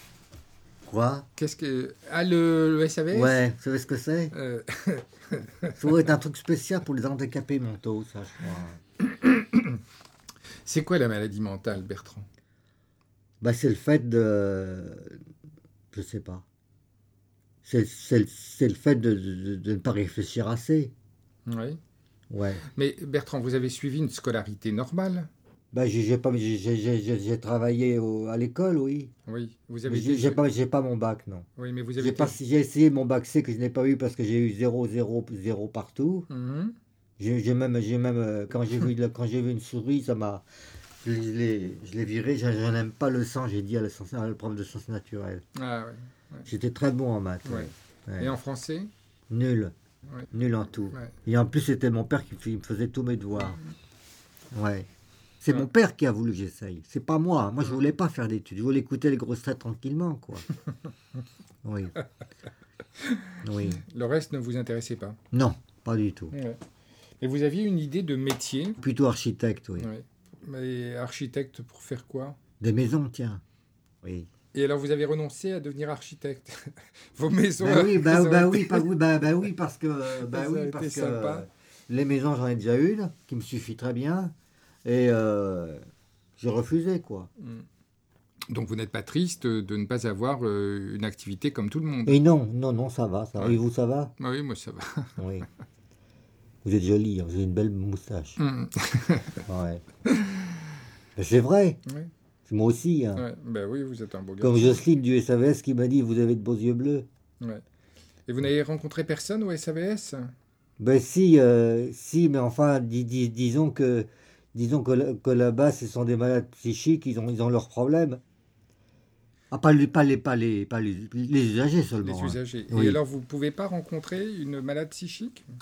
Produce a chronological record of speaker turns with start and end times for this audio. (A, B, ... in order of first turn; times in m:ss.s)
0:00.9-0:01.2 A
0:01.4-0:03.4 B
0:03.1-0:04.3 A
0:04.3-0:05.8 B
0:05.8-0:08.8 A
0:09.1-0:09.8 B
0:10.6-0:12.2 B
0:13.4-0:15.2 A
0:15.9-0:16.4 A
0:17.6-0:20.9 A
0:21.4-0:21.8 B
0:22.3-0:22.6 A
0:22.7-0:25.3 B
0:25.7-0:29.1 A
0:29.3-0:30.4 B
0:29.8-0:31.4 A
0:31.6-0:32.4 B
0:32.0-0:36.3 A
0:36.3-0:36.7 B
0:37.2-0:40.4 A
0:41.0-0:45.4 A
0:45.5-0:46.5 B
0:46.4-0:48.3 A
0:47.4-0:48.9 B
0:49.3-0:49.7 A
0:50.3-0:53.6 A
0:54.5-0:54.8 A
0:55.4-1:00.4 A
1:01.6-1:01.9 A
1:03.0-1:05.2 B
1:03.4-1:03.8 A
1:05.3-1:06.3 A
1:06.3-1:06.6 B
1:07.2-1:08.8 B
1:08.8-1:09.9 A
1:09.8-1:12.4 B
1:12.6-1:13.4 A
1:14.0-1:14.3 A
1:14.5-1:18.9 B
1:17.6-1:24.3 A
1:20.2-1:21.5 B
1:24.8-1:25.8 A
1:26.4-1:27.3 A
1:27.4-1:27.6 B
1:28.5-1:32.2 B
1:32.1-1:34.1 A
1:34.2-1:35.1 B
1:35.2-1:35.5 A
1:36.6-1:38.4 A
1:38.4-1:39.4 B
1:39.5-1:39.8 A
1:40.1-1:40.5 B
1:41.2-1:41.8 A
1:41.8-1:42.1 B
1:42.5-1:43.2 A
1:43.2-1:44.8 B
1:44.4-1:47.1 A
1:48.3-1:50.3 B
1:50.8-1:58.2 A
1:59.5-2:03.0 A
2:02.0-2:05.4 B